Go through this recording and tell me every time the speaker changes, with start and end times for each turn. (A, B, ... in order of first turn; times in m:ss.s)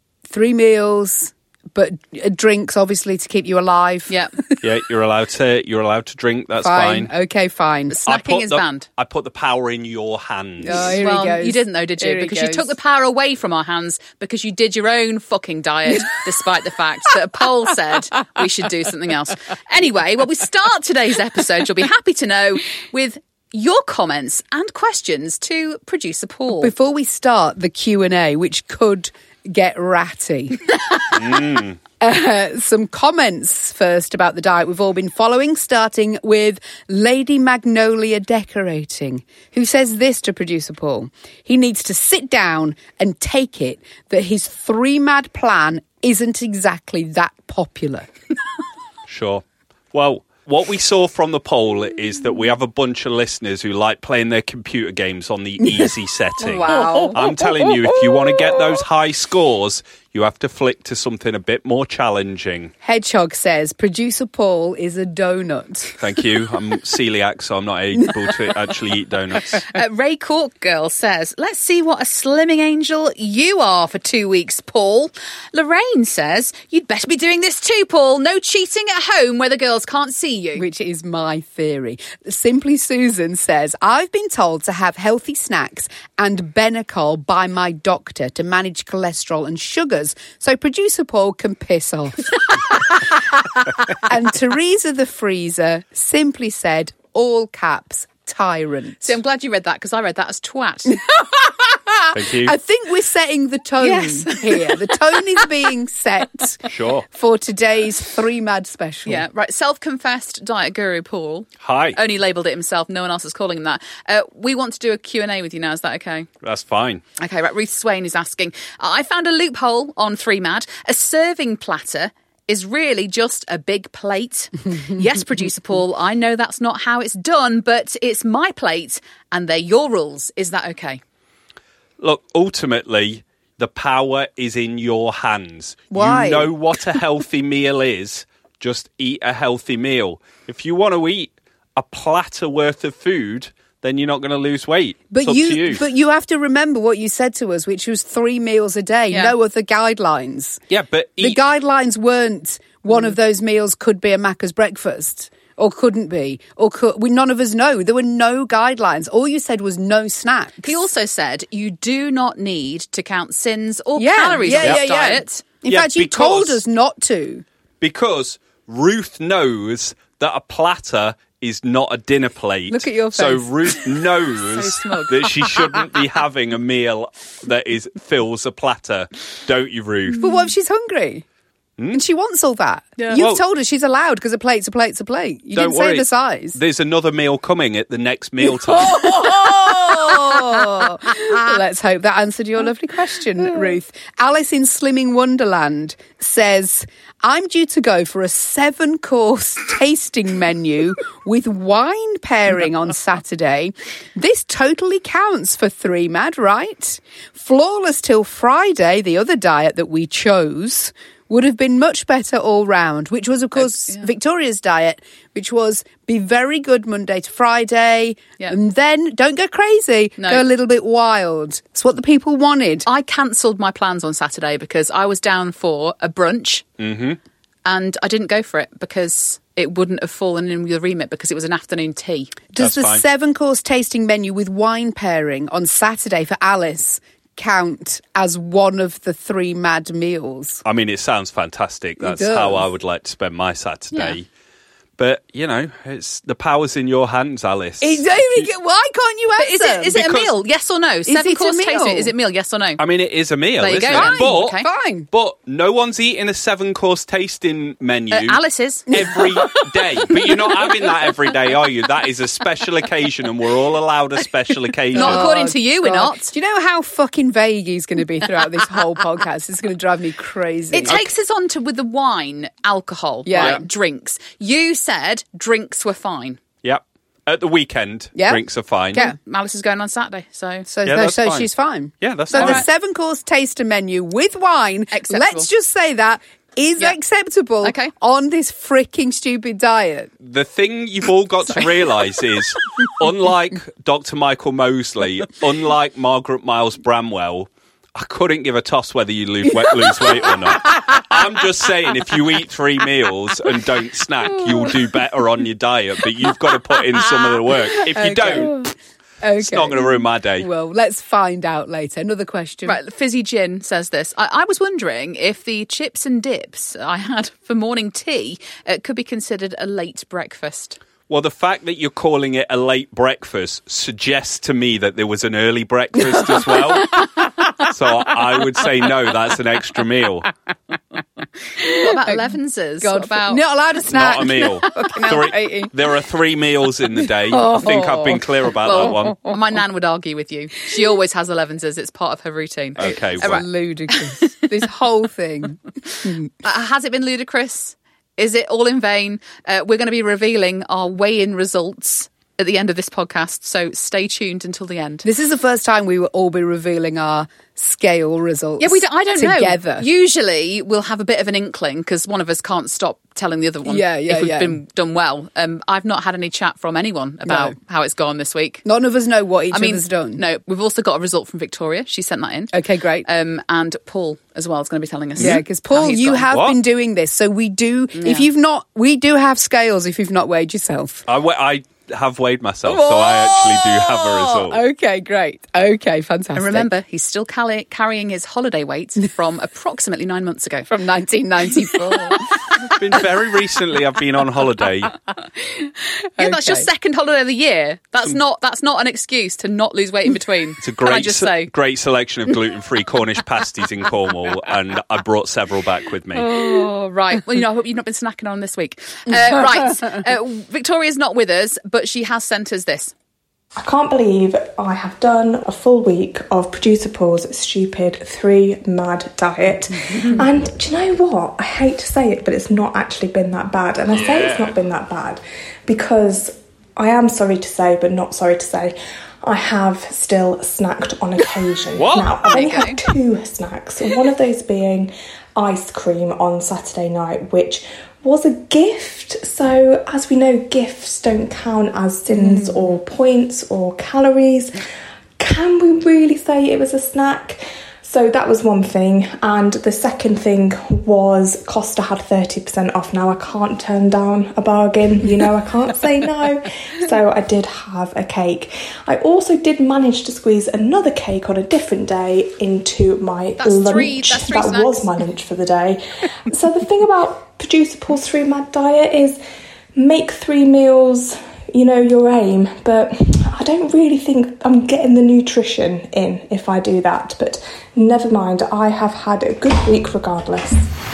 0:00.3-0:04.1 A
0:04.1-0:04.4 B
0:04.6-0:07.1 C
0:06.6-0:08.0 A
0:07.9-0:08.9 B
0:08.1-0:11.0 C
0:10.6-0:12.7 A
0:10.8-0:26.7 B
0:26.6-0:30.6 A
0:31.1-0:31.8 C
0:32.0-0:48.1 A
0:49.1-1:02.7 C
0:55.6-0:55.9 A
0:56.5-0:58.4 A
0:56.6-0:57.1 B
1:02.8-1:06.0 A
1:06.0-1:09.7 C
1:09.6-1:20.7 B
1:20.6-1:39.1 A
1:39.0-1:41.0 B
1:41.1-1:49.2 A
1:42.1-1:42.6 C
1:43.8-1:44.8 B
1:46.7-1:47.0 C
1:49.1-1:56.3 B
1:51.6-1:52.0 C
1:56.4-1:57.0 C
1:57.2-2:11.0 B
2:12.0-2:25.8 C
2:15.9-2:17.0 A
2:25.1-2:30.6 A
2:30.7-2:31.4 C
2:31.2-2:40.8 A
2:40.6-2:45.4 B
2:44.0-2:47.4 A
2:45.7-2:46.6 C
2:47.8-3:00.2 C
2:52.7-2:53.9 A
2:54.5-2:55.4 B
3:00.2-3:01.2 A
3:01.9-3:06.6 A
3:03.1-3:03.4 C
3:05.5-3:09.3 C
3:08.5-3:42.9 A
3:33.6-3:34.1 B
3:40.2-3:40.5 B
3:42.9-3:46.7 B
3:46.8-3:47.2 C
3:47.6-3:52.4 B
3:52.5-4:00.6 A
3:52.6-3:53.0 C
4:00.6-4:04.3 C
4:02.0-4:02.7 A
4:05.0-4:08.5 C
4:07.8-4:09.9 A
4:09.4-4:12.8 B
4:09.9-4:10.3 C
4:11.1-4:12.1 A
4:12.8-4:25.3 C
4:13.6-4:14.6 B
4:13.9-4:15.1 A
4:18.1-4:19.0 B
4:24.9-4:31.0 A
4:25.0-4:26.3 B
4:30.7-4:36.4 B
4:33.2-4:33.6 A
4:36.6-4:39.0 C
4:38.2-4:38.4 A
4:39.0-4:40.7 B
4:40.7-4:50.1 A
4:40.8-4:41.5 C
4:42.0-4:42.6 C
4:42.4-4:42.6 B
4:44.9-4:45.5 B
4:47.6-4:47.9 B
4:50.2-5:08.7 C
4:59.8-5:00.3 A
5:04.4-5:04.7 A
5:07.7-5:12.8 A
5:09.4-5:10.5 C
5:12.6-5:20.8 B
5:21.1-5:30.3 C
5:31.6-5:32.2 A
5:31.7-5:33.4 B
5:32.8-5:35.7 A
5:33.9-5:39.3 C
5:37.3-5:38.3 A
5:38.6-5:44.3 B
5:42.8-5:43.5 C
5:42.9-5:46.2 A
5:46.4-5:55.0 B
5:55.0-5:59.8 A
5:58.6-6:08.6 B
6:03.7-6:04.6 A
6:07.3-6:07.6 A
6:08.6-6:10.2 A
6:09.5-6:12.5 B
6:12.5-6:13.1 A
6:13.0-6:16.3 B
6:15.2-6:21.0 A
6:15.2-6:15.4 C
6:16.2-6:16.6 C
6:18.0-6:18.3 B
6:21.1-6:24.6 C
6:22.6-6:26.7 A
6:26.4-6:30.7 B
6:30.7-6:32.4 A
6:32.6-6:35.0 C
6:36.2-6:36.7 A
6:36.2-6:41.5 B
6:40.6-6:46.4 C
6:46.2-6:52.9 B
6:53.6-7:24.6 D
7:03.9-7:04.5 C
7:11.8-7:12.4 C
7:12.3-7:12.8 B
7:25.2-7:49.2 D
7:43.4-7:44.9 B
7:49.8-8:00.7 D